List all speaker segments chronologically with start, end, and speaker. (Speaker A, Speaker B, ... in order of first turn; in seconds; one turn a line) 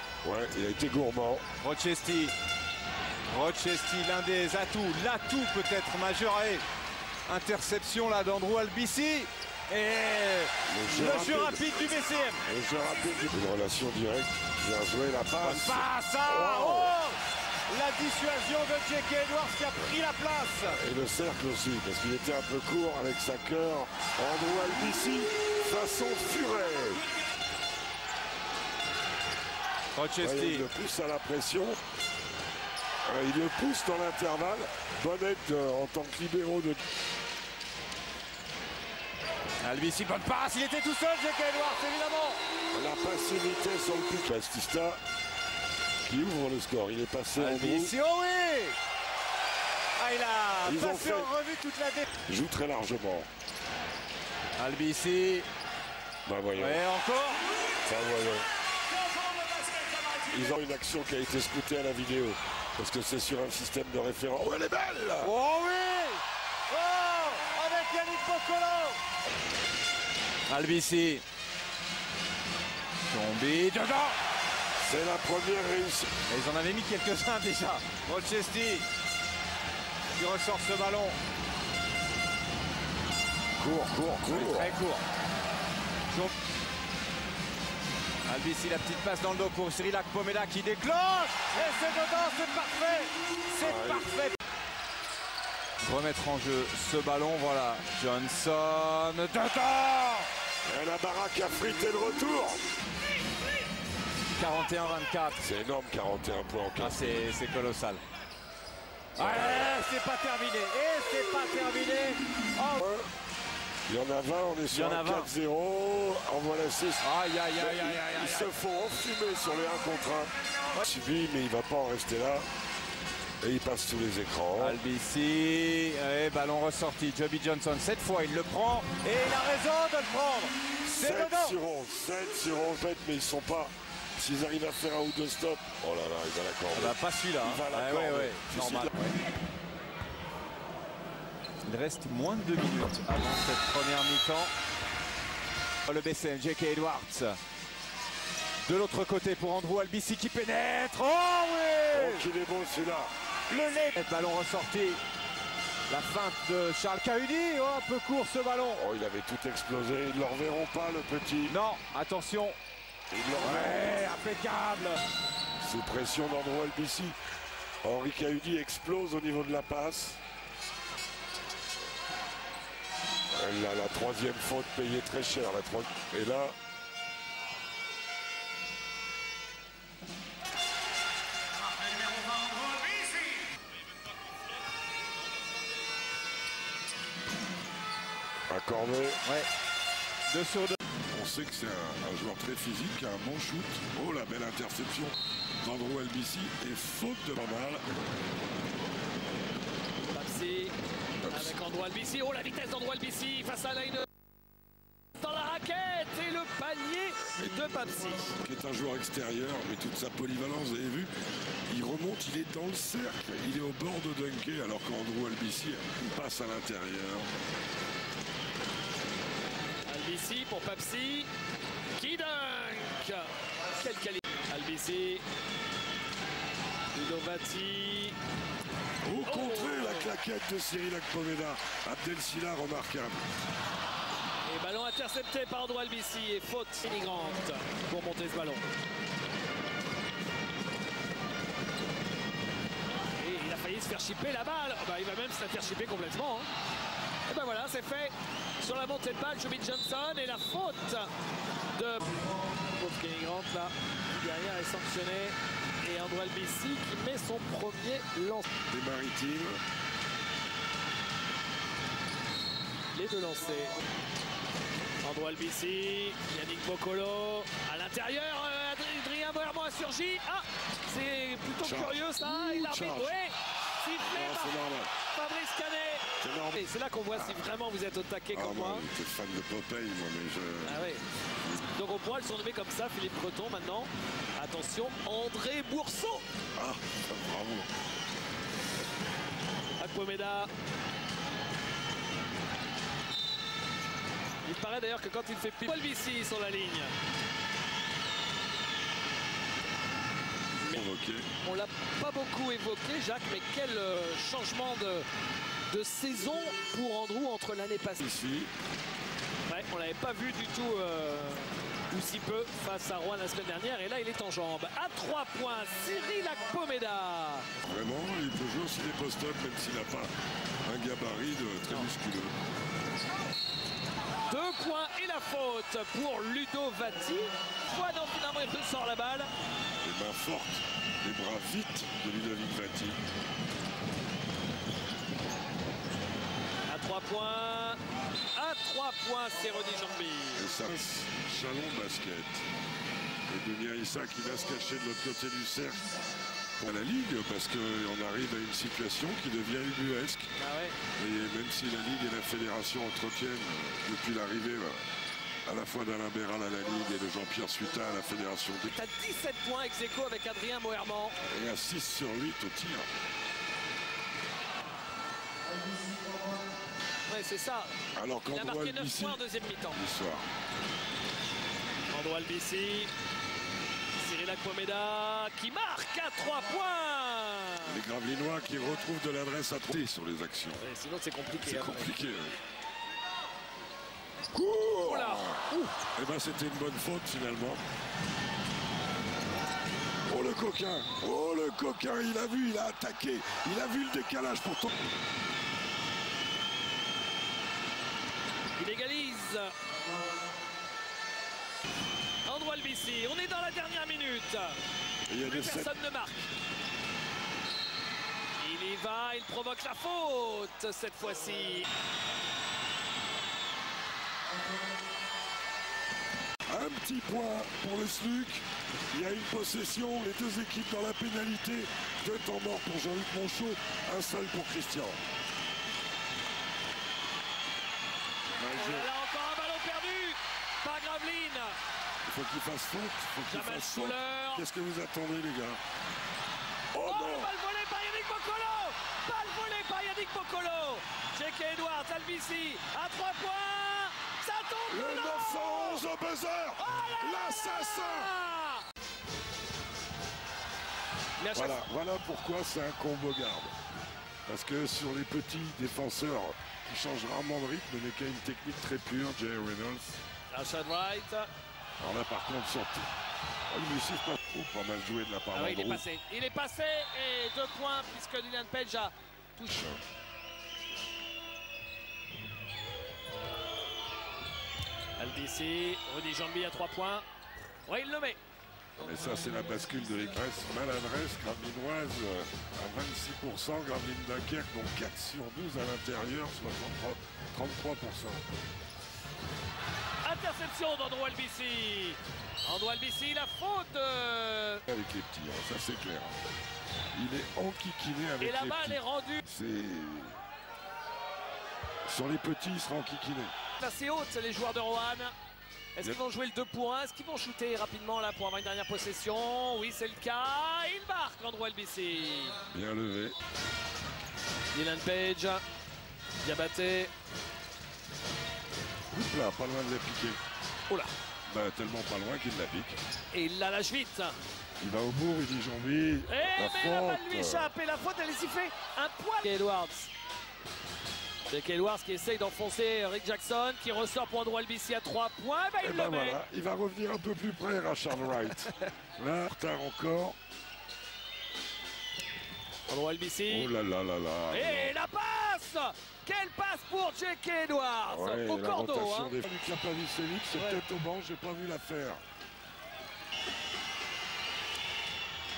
Speaker A: 0.2-1.4
Speaker B: 1.6-2.3
Speaker B: 3.3-6.6
Speaker B: 7.3-12.4
Speaker A: 10.7-11.9
Speaker A: 12.4-17.0
Speaker B: 15.4-17.1
Speaker B: 17.7-20.8
Speaker A: 20.7-27.0
Speaker B: 29.9-30.7
Speaker A: 30.2-31.8
Speaker A: 33.0-36.8
Speaker B: 39.6-42.4
Speaker A: 42.7-45.0
Speaker A: 46.0-48.0
Speaker B: 47.4-48.8
Speaker B: 50.0-52.1
Speaker A: 50.6-51.3
Speaker A: 52.2-53.3
Speaker B: 54.6-55.4
Speaker A: 56.2-56.8
Speaker B: 56.5-57.5
Speaker A: 57.8-58.5
Speaker A: 60.3-65.3
Speaker B: 65.2-69.0
Speaker B: 70.5-71.2
Speaker B: 73.0-74.1
Speaker A: 74.8-76.1
Speaker B: 76.3-78.8
Speaker B: 80.2-81.2
Speaker A: 83.6-84.7
Speaker B: 84.2-85.0
Speaker B: 88.3-94.3
Speaker A: 93.6-94.1
Speaker B: 95.8-100.3
Speaker A: 100.6-102.6
Speaker B: 104.3-105.5
Speaker A: 105.4-107.3
Speaker B: 106.8-108.0
Speaker A: 109.2-109.8
Speaker B: 109.2-112.8
Speaker A: 112.8-113.1
Speaker A: 113.9-122.5
Speaker B: 114.7-115.3
Speaker B: 117.0-118.5
Speaker A: 123.4-124.8
Speaker B: 124.5-131.6
Speaker A: 130.9-138.9
Speaker B: 136.7-139.2
Speaker B: 141.6-144.5
Speaker B: 145.9-147.4
Speaker B: 148.6-152.3
Speaker A: 151.9-153.1
Speaker B: 153.5-155.0
Speaker B: 155.9-158.8
Speaker A: 158.8-161.6
Speaker B: 161.5-162.6
Speaker A: 163.1-164.1
Speaker B: 163.4-165.0
Speaker A: 165.6-167.2
Speaker A: 167.8-170.2
Speaker A: 173.3-176.5
Speaker A: 188.5-189.2
Speaker B: 190.3-190.8
Speaker A: 191.1-197.8
Speaker C: 200.1-200.7
Speaker A: 201.2-201.6
Speaker C: 201.3-204.1
Speaker C: 205.2-208.3
Speaker A: 208.4-211.1
Speaker A: 211.7-217.3
Speaker C: 219.8-221.3
Speaker C: 222.0-225.2
Speaker C: 226.9-228.2
Speaker A: 229.0-233.2
Speaker C: 229.2-230.1
Speaker C: 234.4-238.7
Speaker C: 243.2-246.5
Speaker C: 247.3-251.1
Speaker C: 251.7-252.2
Speaker C: 252.7-258.5
Speaker A: 258.7-259.6
Speaker C: 262.9-263.7
Speaker C: 265.0-278.9
Speaker A: 271.6-273.2
Speaker A: 274.0-274.9
Speaker A: 276.2-277.4
Speaker A: 278.3-280.9
Speaker C: 280.6-281.0
Speaker C: 281.7-286.2
Speaker A: 286.6-287.7
Speaker C: 289.8-290.5
Speaker C: 294.4-296.9
Speaker A: 300.6-301.2
Speaker C: 301.4-305.1
Speaker C: 305.7-308.1
Speaker A: 308.0-308.5
Speaker C: 309.5-317.5
Speaker A: 317.6-320.1
Speaker A: 320.6-322.3
Speaker C: 324.3-329.3
Speaker A: 329.8-333.0
Speaker C: 336.7-337.8
Speaker C: 338.3-340.5
Speaker A: 340.3-342.4
Speaker A: 343.3-346.0
Speaker A: 346.6-350.3
Speaker C: 350.4-350.8
Speaker A: 350.9-354.9
Speaker A: 355.4-358.7
Speaker C: 358.7-361.1
Speaker A: 361.3-362.9
Speaker C: 367.1-367.7
Speaker A: 367.9-370.3
Speaker C: 368.3-369.8
Speaker C: 371.9-372.9
Speaker C: 374.0-377.8
Speaker A: 377.6-380.7
Speaker C: 380.6-381.9
Speaker A: 381.4-382.4
Speaker A: 384.3-387.6
Speaker C: 384.8-385.7
Speaker A: 390.1-394.7
Speaker C: 398.6-399.5
Speaker C: 402.2-404.6
Speaker A: 405.1-405.7
Speaker C: 405.2-406.3
Speaker C: 408.4-411.7
Speaker A: 416.5-425.0
Speaker A: 428.4-428.9
Speaker C: 428.4-431.6
Speaker A: 432.0-435.6
Speaker C: 433.3-434.5
Speaker A: 436.7-437.3
Speaker C: 436.8-445.9
Speaker A: 444.7-448.1
Speaker C: 446.6-448.6
Speaker C: 451.2-451.6
Speaker A: 451.3-453.5
Speaker A: 454.3-460.0
Speaker C: 460.3-461.3
Speaker A: 461.8-462.9
Speaker A: 463.5-465.8
Speaker C: 465.3-469.8
Speaker A: 469.5-469.8
Speaker C: 475.0-477.1
Speaker C: 477.6-478.2
Speaker A: 478.8-488.2
Speaker C: 490.0-494.6
Speaker A: 494.7-496.1
Speaker A: 496.9-500.2
Speaker C: 498.2-499.2
Speaker A: 501.9-503.3
Speaker C: 503.6-505.1
Speaker C: 505.8-512.4
Speaker A: 512.5-513.1
Speaker C: 514.5-515.4
Speaker C: 516.2-516.9
Speaker A: 518.9-520.2
Speaker A: 521.3-522.8
Speaker C: 523.1-524.1
Speaker A: 524.6-527.5
Speaker C: 526.1-529.9
Speaker C: 531.3-536.2
Speaker A: 535.6-540.2
Speaker C: 538.1-538.7
Speaker C: 542.7-543.5
Speaker A: 543.3-544.7
Speaker C: 544.3-549.2
Speaker A: 547.9-552.0
Speaker C: 550.3-550.6